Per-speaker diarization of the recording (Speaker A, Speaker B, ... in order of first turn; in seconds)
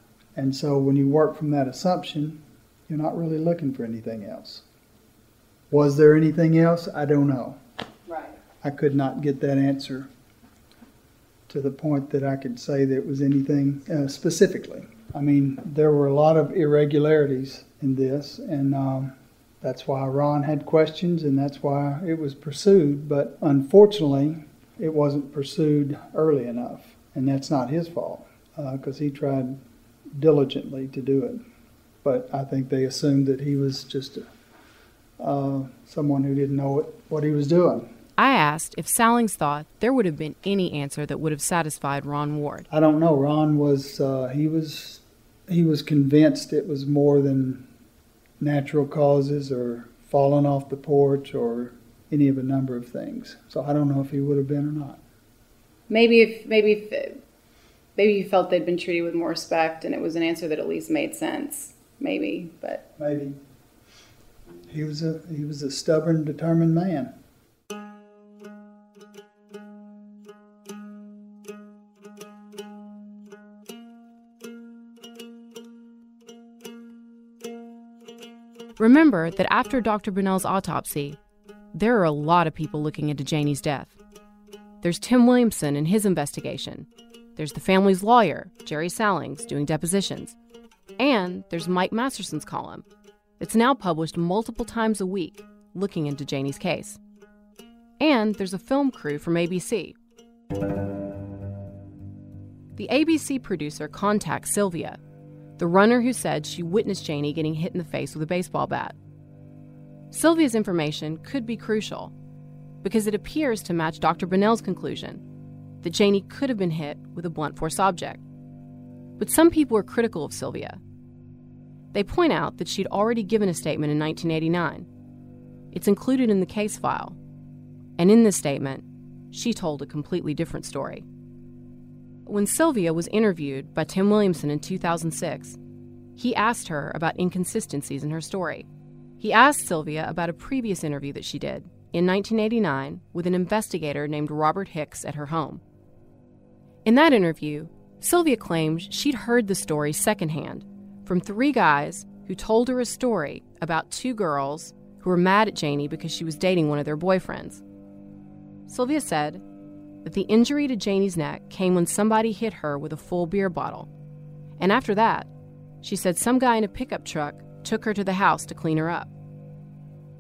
Speaker A: 0.4-4.6, 5.7-7.6, 8.6-10.1, 11.5-29.6, 30.1-31.4, 32.0-34.3, 35.2-37.9, 42.7-47.7, 48.4-55.0, 63.0-63.4, 64.7-67.1
Speaker B: 8.1-8.4, 55.9-57.2, 58.0-62.8
Speaker C: 38.2-42.6, 78.8-81.2, 81.7-84.0, 84.8-90.3, 91.0-92.8, 93.4-97.0, 98.0-100.0, 102.8-105.0, 105.6-109.0, 110.1-112.1, 112.8-115.2, 115.8-118.2, 119.2-120.8, 121.9-124.9, 125.7-127.2, 128.0-131.1, 132.3-135.6, 136.2-138.7, 139.2-145.6, 146.8-157.6, 158.7-159.4, 160.0-163.9, 164.6-165.3, 165.8-169.1